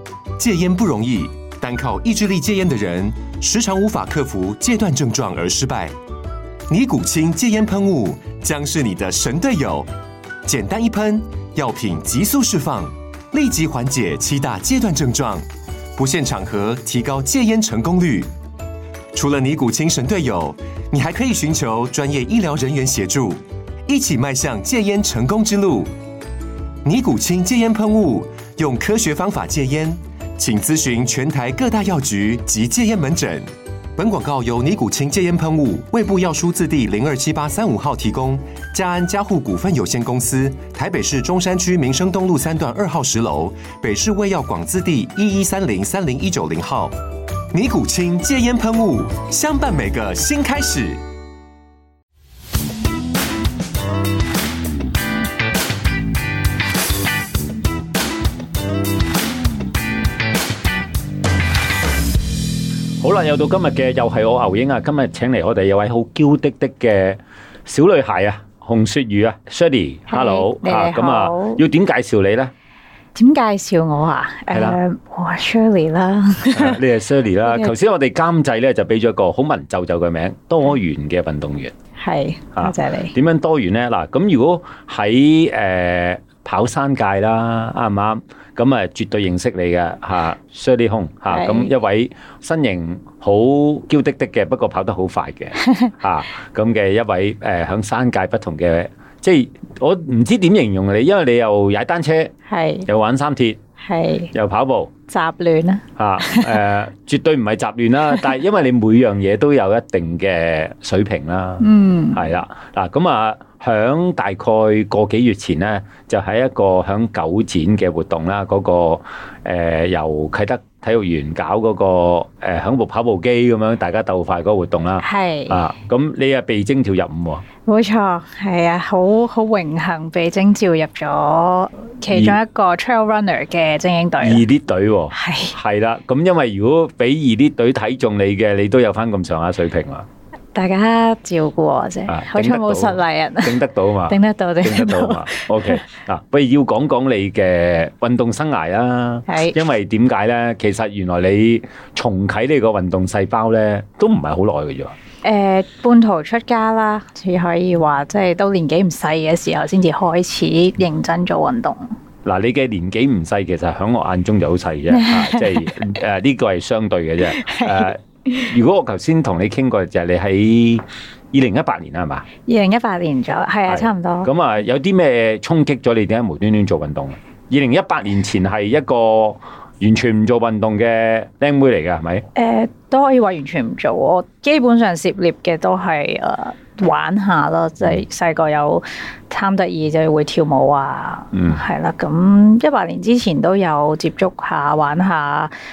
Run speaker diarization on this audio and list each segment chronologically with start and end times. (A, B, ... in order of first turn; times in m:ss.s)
0:00.4-0:05.9 A
0:06.7-0:09.9 A
0:10.4-0:18.3 A
0:19.1-0:25.9 A
0:26.8-0:47.0 A
0:47.5-0:51.0 A
1:03.0-1:12.5 B
1:10.1-1:11.6 C
1:13.2-1:16.8 C
1:14.5-1:14.8 B
1:16.5-1:21.7 B
1:17.5-1:17.7 C
1:22.0-1:23.1 C
1:22.6-1:42.3 B
1:31.3-1:31.7 C
1:42.5-1:42.9 C
1:42.9-1:43.6 B
1:43.8-1:44.3 C
1:44.3-1:44.9 B
1:45.1-1:46.6 C
1:46.0-2:07.4 B
1:51.6-1:52.3 C
2:05.0-2:05.6 C
2:07.7-2:14.4 C
2:12.1-2:12.4 B
2:14.2-2:20.1 B
2:15.1-2:15.6 C
2:20.5-2:25.8 C
2:22.1-2:35.0 B
2:29.3-2:29.6 C
2:35.2-2:41.9 C
2:42.2-2:52.3 B
2:44.9-2:45.7 C
2:47.3-2:48.5 C
2:52.5-2:54.3 C
2:53.7-3:02.2 B
3:02.4-3:15.5 C
3:11.3-3:11.6 B